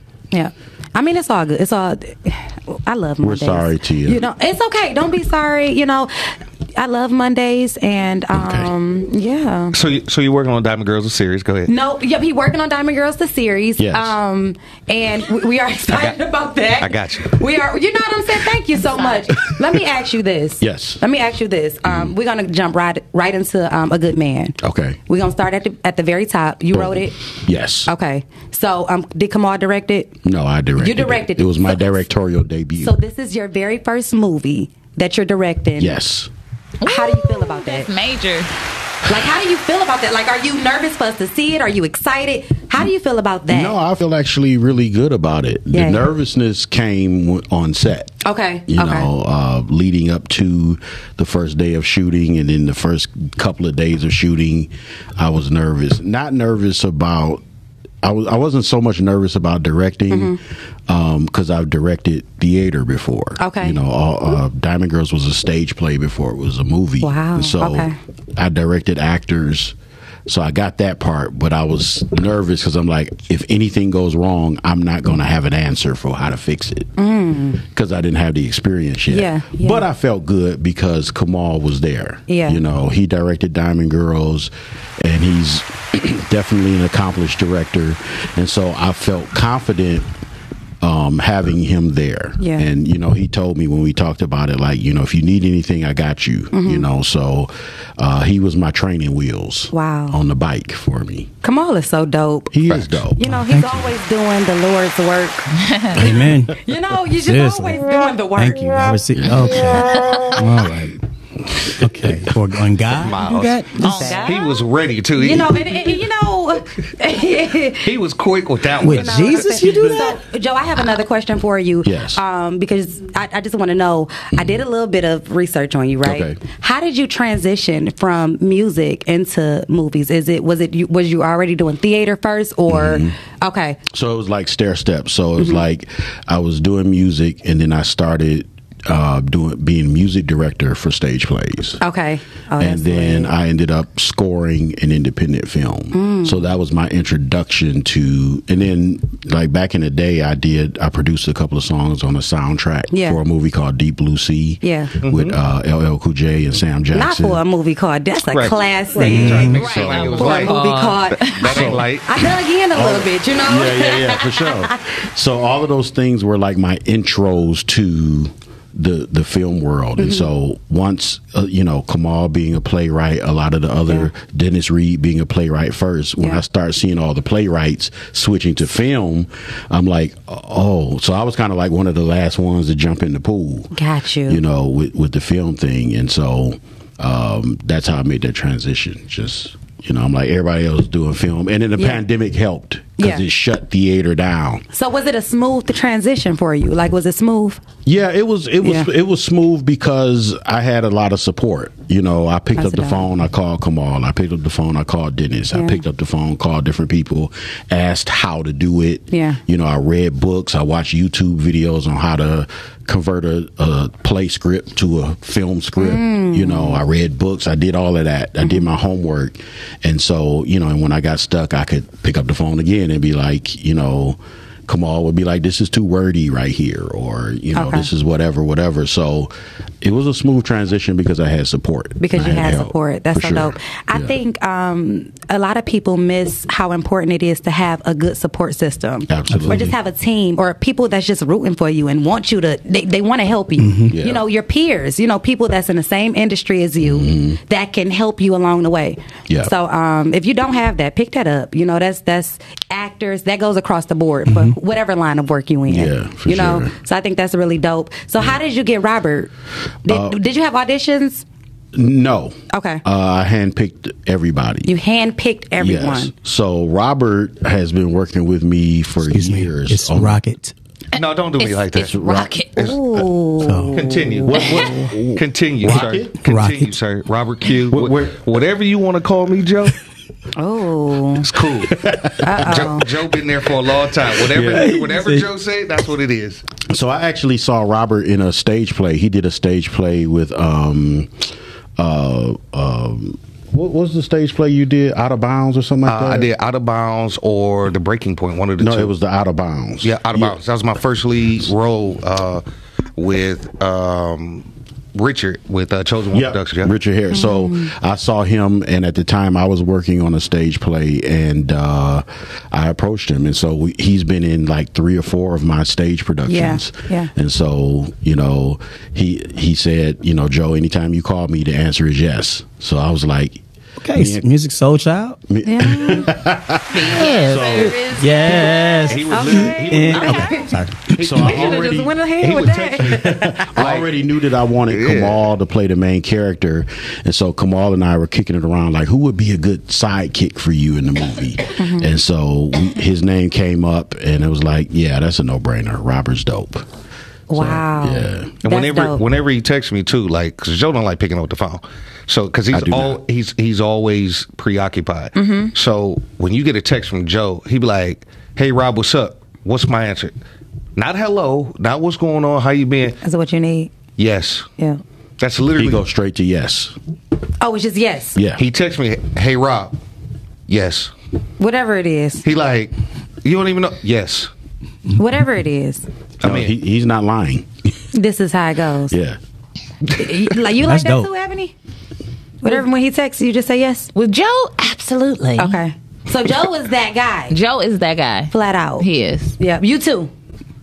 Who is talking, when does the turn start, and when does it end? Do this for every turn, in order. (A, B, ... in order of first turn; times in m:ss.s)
0:00.3-0:09.8 A
0:03.2-0:04.3 B
0:08.3-0:08.7 B
0:09.7-0:11.7 C
0:11.7-0:27.2 A
0:13.8-0:14.2 B
0:16.8-0:17.3 C
0:18.9-0:19.2 D
0:20.6-0:21.0 B
0:21.8-0:22.1 B
0:24.6-0:25.0 B
0:26.7-0:27.9 B
0:27.9-0:30.2 A
0:30.2-0:33.0 B
0:30.8-0:32.0 A
0:32.8-0:36.0 A
0:35.8-0:36.3 B
0:36.8-0:38.5 D
0:36.8-0:37.9 A
0:39.1-0:43.8 A
0:43.5-0:57.4 B
0:45.7-0:46.1 A
0:48.2-0:49.1 A
0:58.0-1:16.9 B
1:00.1-1:00.4 A
1:03.4-1:03.8 A
1:07.0-1:08.0 A
1:17.0-1:17.6 A
1:17.6-1:30.1 B
1:19.1-1:19.8 A
1:22.3-1:22.6 A
1:30.8-1:41.3 B
1:32.4-1:32.7 A
1:36.5-1:36.9 A
1:39.7-1:40.2 A
1:41.4-1:42.5 A
1:42.5-1:43.2 B
1:42.7-1:43.0 C
1:43.2-1:45.5 A
1:43.2-1:43.8 E
1:45.6-1:46.0 D
1:46.0-1:46.6 E
1:46.6-1:48.9 A
1:47.1-1:47.8 E
1:48.4-1:51.0 E
1:49.1-1:49.8 B
1:50.0-1:50.3 D
1:51.8-1:54.2 E
1:53.0-1:55.9 C
1:53.8-1:54.6 D
1:54.0-1:54.5 A
1:55.2-1:57.9 A
1:57.8-1:59.5 C
1:58.8-2:13.8 A
1:58.8-2:00.2 E
2:01.8-2:02.2 B
2:04.3-2:04.6 B
2:06.0-2:06.4 B
2:12.7-2:13.2 B
2:13.9-2:21.8 B
2:21.8-2:23.3 A
2:22.6-2:37.4 B
2:25.9-2:26.4 A
2:32.9-2:33.2 A
2:34.6-2:34.9 A
2:35.0-2:35.4 C
2:36.9-2:39.6 A
2:38.3-2:42.2 C
2:39.0-2:39.6 E
2:39.1-2:40.2 B
2:39.6-2:41.7 D
2:40.1-2:44.8 A
2:41.4-2:41.9 B
2:42.7-3:03.7 B
2:50.0-2:50.3 A
3:03.7-3:04.4 A
3:04.3-3:14.6 B
3:11.8-3:12.0 A
3:13.0-3:13.2 A
3:14.7-3:17.6 A
3:17.8-3:54.1 B
3:18.6-3:18.9 A
3:22.6-3:23.1 A
3:25.5-3:25.8 A
3:29.1-3:29.4 A
3:35.8-3:36.8 A
3:38.4-3:38.7 A
3:47.6-3:47.9 A
3:52.0-4:19.3 A
3:59.1-3:59.8 B
3:59.3-3:59.7 E
4:03.6-4:04.0 E
4:03.9-4:04.2 B
4:06.8-4:07.4 B
4:15.7-4:16.7 B
4:19.8-4:21.3 A
4:19.9-4:20.2 B
4:21.7-4:24.7 B
4:22.5-4:22.8 A
4:24.7-4:26.1 A
4:25.6-4:30.2 B
4:29.1-4:30.5 E
4:31.0-4:32.8 C
4:31.0-4:32.7 D
4:31.8-4:32.4 B
4:32.6-4:34.7 A
4:33.4-4:33.8 E
4:33.7-4:39.8 C
4:34.2-4:36.2 B
4:36.2-4:36.7 E
4:37.7-4:38.2 B
4:40.4-4:41.3 A
4:41.2-4:41.8 C
4:41.7-4:42.7 B
4:42.2-4:42.9 A
4:42.4-4:46.4 C
4:44.3-4:44.8 B
4:44.4-4:45.3 E
4:46.7-4:51.1 B
4:51.8-4:56.3 B
4:55.8-4:58.9 C
4:58.6-5:00.4 B
4:59.8-5:02.4 C
5:03.0-5:06.7 C
5:06.1-5:24.3 B
5:07.1-5:07.7 A
5:16.3-5:17.1 A
5:23.8-5:25.2 E
5:25.3-5:27.8 B
5:25.4-5:26.1 A
5:26.7-5:29.0 D
5:27.9-5:31.3 E
5:28.9-5:30.4 C
5:29.1-5:30.5 A
5:31.0-5:46.7 B
5:31.0-5:31.7 C
5:31.2-5:33.4 A
5:32.2-5:34.0 C
5:34.7-5:35.2 C
5:41.6-5:41.9 A
5:47.3-5:49.0 A
5:47.3-5:48.3 B
5:48.4-6:00.2 C
5:52.5-5:53.0 B
5:55.2-5:55.5 A
6:00.8-6:03.0 C
6:03.0-6:03.7 A
6:04.0-6:04.5 C
6:05.2-6:05.8 C
6:05.6-6:06.8 B
6:07.4-6:08.2 A
6:08.2-6:08.4 B
6:08.4-6:09.8 C
6:10.5-6:10.9 C
6:11.4-6:12.2 A
6:12.2-6:14.3 C
6:15.0-6:15.9 A
6:16.2-6:16.5 C
6:16.2-6:17.5 B
6:17.9-6:19.0 A
6:18.9-6:19.2 B
6:19.9-6:21.5 A
6:20.6-6:21.1 E
6:22.4-6:23.9 A
6:24.0-6:25.6 D
6:25.4-6:27.4 A
6:27.3-6:29.4 D
6:28.3-6:30.1 A